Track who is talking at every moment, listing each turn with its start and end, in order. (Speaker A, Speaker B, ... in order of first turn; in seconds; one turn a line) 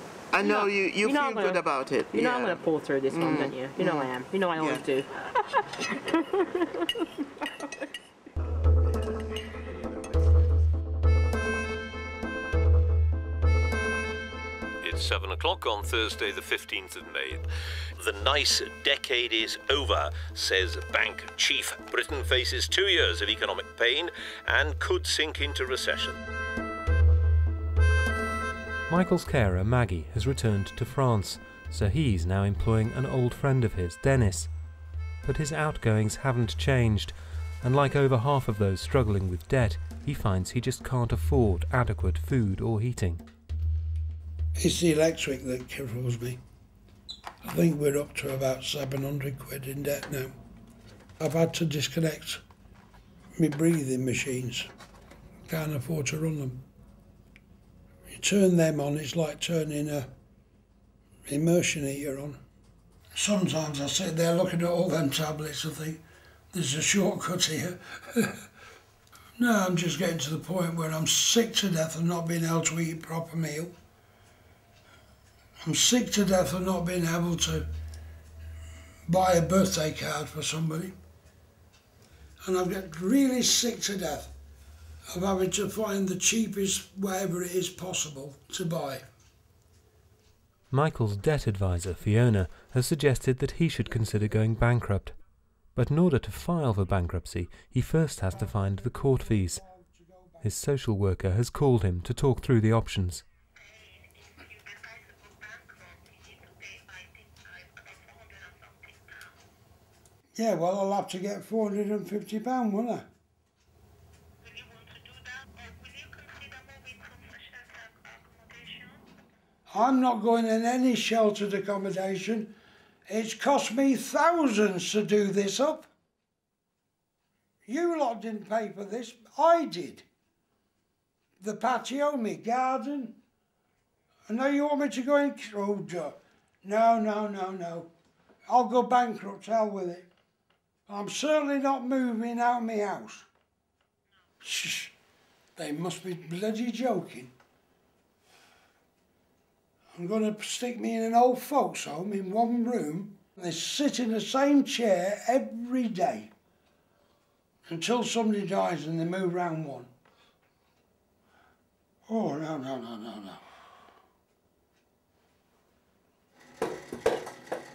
Speaker A: 0.3-4.8
Speaker B: 0.4-6.8
Speaker C: 14.8-17.4
Speaker C: 18.0-26.2
Speaker D: 28.9-34.5
Speaker D: 35.2-43.2
Speaker E: 44.6-46.4
Speaker E: 47.4-50.4
Speaker E: 51.2-52.4
Speaker E: 53.4-54.7
Speaker E: 55.5-56.6
Speaker E: 58.1-60.1
Speaker E: 61.3-62.4
Speaker E: 63.1-68.5
Speaker E: 69.4-73.8
Speaker E: 75.6-77.7
Speaker E: 79.1-81.0
Speaker E: 82.4-84.3
Speaker E: 85.1-89.1
Speaker D: 90.7-95.2
Speaker D: 95.8-99.6
Speaker E: 98.3-100.5
Speaker D: 100.4-103.2
Speaker E: 110.3-113.1
Speaker E: 119.7-122.5
Speaker E: 123.1-125.9
Speaker E: 127.7-130.1
Speaker E: 131.4-133.2
Speaker E: 134.3-137.9
Speaker E: 138.5-140.1
Speaker E: 140.9-143.3
Speaker E: 144.4-144.9
Speaker E: 145.6-147.3
Speaker E: 149.9-156.3
Speaker E: 157.7-159.9
Speaker E: 162.1-163.4